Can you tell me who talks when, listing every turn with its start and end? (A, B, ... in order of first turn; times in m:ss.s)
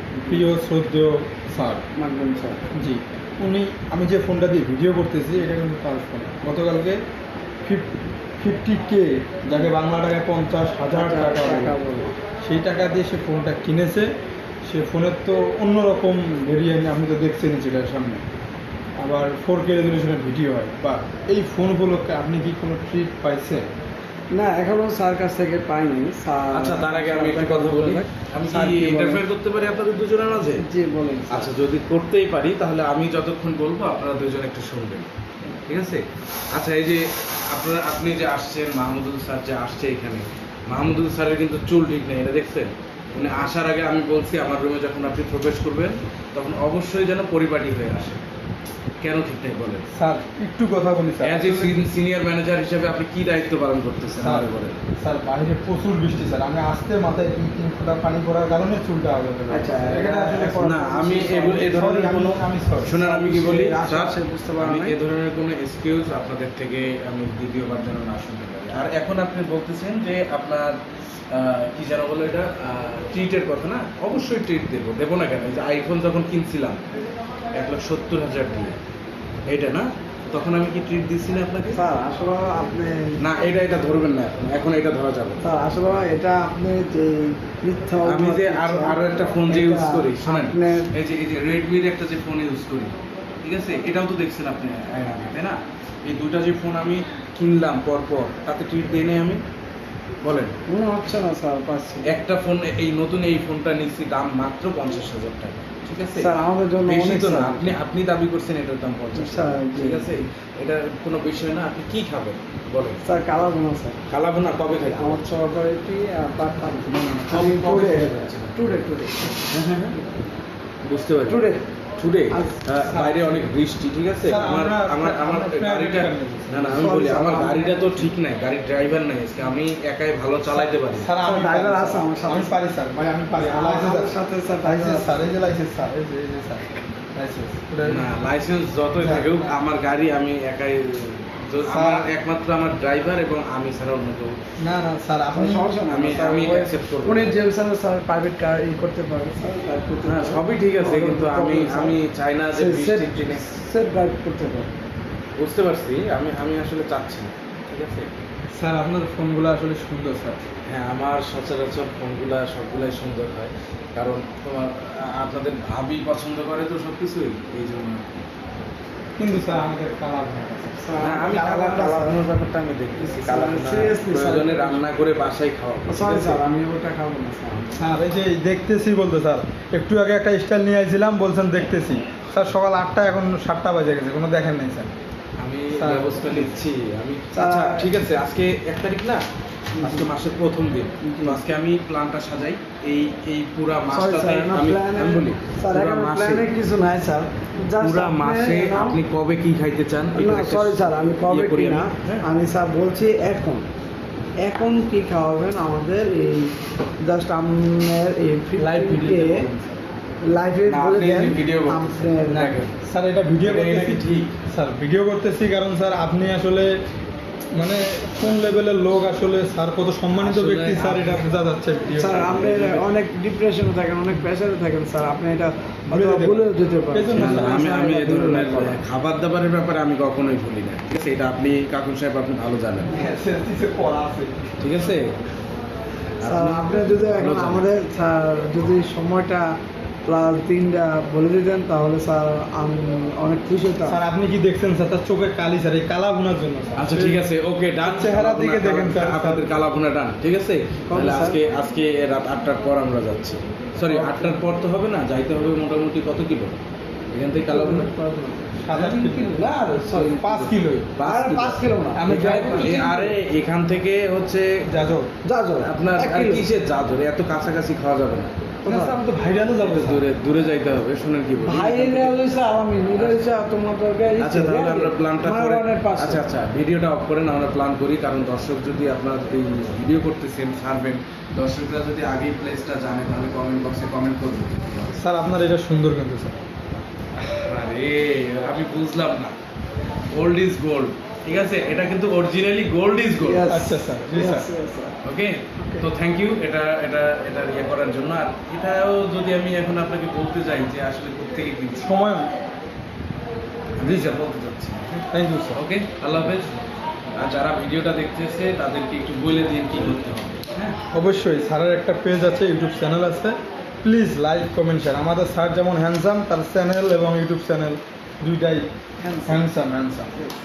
0:00.1-0:00.4 A
0:00.3-0:01.8 B
0:02.0-0:02.6 A
0:02.8-0:07.0 B
0:08.4-0:11.8 B
0:10.9-0:12.2 A
0:12.4-0:14.1 B
0:14.7-0:18.2 B
0:19.0-0:23.6 B
0:24.3-0:29.2 A
0:26.5-0:30.6 C
0:30.6-0:31.5 A
0:31.3-0:35.1 C
0:35.6-0:48.2 C
0:49.0-0:49.9 C
0:49.9-0:51.8 B
0:51.2-0:54.8 C
0:54.2-1:03.0 B
0:59.5-1:01.5 A
1:00.5-1:10.8 C
1:03.0-1:05.0 A
1:11.3-1:16.8 C
1:17.6-1:18.8 C
1:19.5-1:21.8 C
1:21.7-1:23.2 A
1:23.2-1:25.4 C
1:25.4-1:30.9 A
1:28.0-1:39.4 C
1:40.2-1:40.6 C
1:40.7-1:42.2 A
1:42.1-1:53.0 C
1:46.2-1:47.8 A
1:49.1-1:50.1 A
1:53.0-1:54.0 A
1:54.1-1:55.2 C
1:54.7-2:00.2 A
1:56.9-1:57.3 B
1:57.3-1:58.5 C
1:59.5-2:00.0 C
2:00.8-2:01.4 C
2:01.3-2:01.6 A
2:02.0-2:11.1 C
2:02.3-2:02.6 A
2:02.9-2:03.4 B
2:04.2-2:06.8 B
2:06.8-2:08.1 A
2:10.5-2:18.1 B
2:11.2-2:12.6 A
2:13.4-2:15.3 A
2:17.8-2:24.3 C
2:19.0-2:19.5 B
2:21.6-2:22.1 B
2:24.6-2:25.7 B
2:25.3-2:32.0 A
2:25.9-2:27.4 C
2:30.0-2:33.4 C
2:32.5-2:34.7 A
2:35.4-2:38.1 C
2:38.6-2:40.4 B
2:40.7-2:48.2 C
2:49.2-2:50.8 B
2:50.8-2:52.2 A
2:51.0-2:56.4 C
2:53.0-2:54.8 A
2:55.9-2:57.8 A
2:57.8-3:04.9 B
3:05.4-3:09.2 C
3:05.8-3:06.5 B
3:07.3-3:07.9 A
3:09.8-3:16.5 C
3:09.8-3:10.1 A
3:11.0-3:11.4 A
3:13.9-3:19.0 A
3:17.8-3:22.2 C
3:20.1-3:23.6 A
3:24.4-3:29.5 A
3:28.6-3:29.7 C
3:28.7-3:29.1 B
3:30.2-3:32.6 A
3:30.6-3:32.8 C
3:32.8-3:36.7 B
3:33.4-3:34.4 C
3:37.6-3:42.2 B
3:38.2-3:38.5 C
3:40.1-3:41.2 C
3:41.9-3:48.8 A
3:42.1-3:42.9 C
3:45.9-3:47.8 B
3:47.2-3:53.0 C
3:52.9-3:54.5 B
3:54.6-3:55.1 C
3:56.2-3:57.6 C
3:56.2-3:59.5 A
4:00.1-4:04.0 A
4:03.8-4:07.2 B
4:06.8-4:16.6 C
4:07.8-4:09.5 B
4:10.9-4:11.4 A
4:13.9-4:14.4 A
4:17.1-4:17.9 C
4:17.5-4:20.5 A
4:18.6-4:19.4 B
4:19.9-4:21.0 B
4:21.0-4:24.5 C
4:21.0-4:23.1 A
4:21.9-4:23.0 B
4:24.7-4:25.1 B
4:25.2-4:26.5 A
4:25.6-4:28.3 C
4:28.6-4:29.0 A
4:28.6-4:30.0 B
4:29.6-4:32.2 C
4:31.4-4:36.2 A
4:32.9-4:33.2 C
4:34.2-4:45.0 C
4:45.0-4:46.4 B
4:47.2-4:49.3 C
4:50.1-4:53.5 C
4:53.2-4:55.0 A
4:53.5-4:54.5 B
4:55.0-5:01.9 C
4:55.6-4:55.9 A
5:01.8-5:02.3 B
5:03.8-5:06.6 C
5:03.8-5:04.1 B
5:05.1-5:05.6 B
5:07.2-5:10.8 C
5:10.9-5:18.6 B
5:19.0-5:19.5 A
5:19.2-5:20.1 B